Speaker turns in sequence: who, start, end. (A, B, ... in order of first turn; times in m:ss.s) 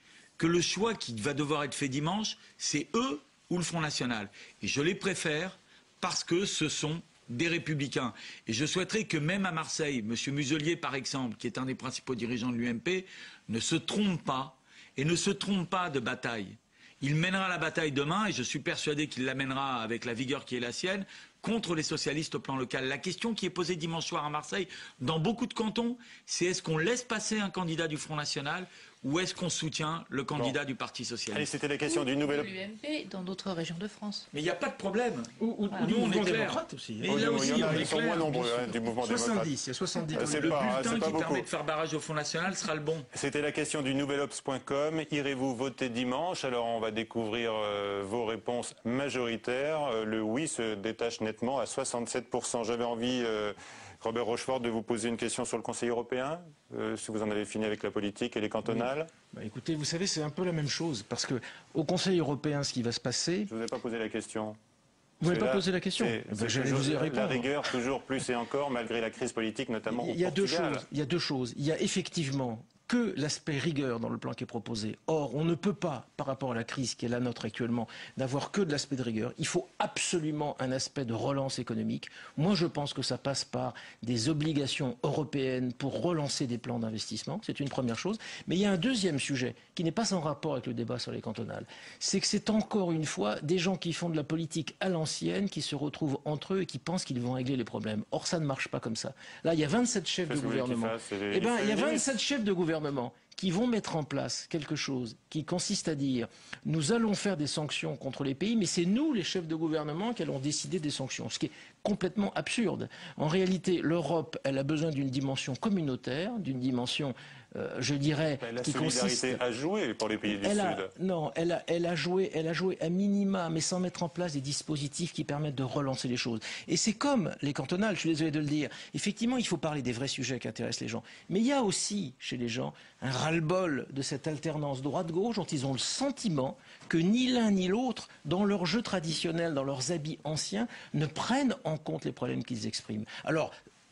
0:00.4-0:31.5 A
0:31.3-0:32.5 B
0:31.9-0:34.3 C
0:34.3-0:39.1 A
0:35.4-0:37.9 D
0:37.0-0:39.5 B
0:39.0-0:40.9 D
0:40.1-0:41.4 B
0:40.1-0:43.1 A
0:43.1-0:59.1 B
0:58.7-1:03.5 D
1:03.5-1:04.6 B
1:05.2-1:07.5 D
1:05.2-1:10.8 B
1:09.9-1:59.4 D
1:40.3-1:42.1 B
1:58.4-2:00.9 B
2:00.3-2:23.5 D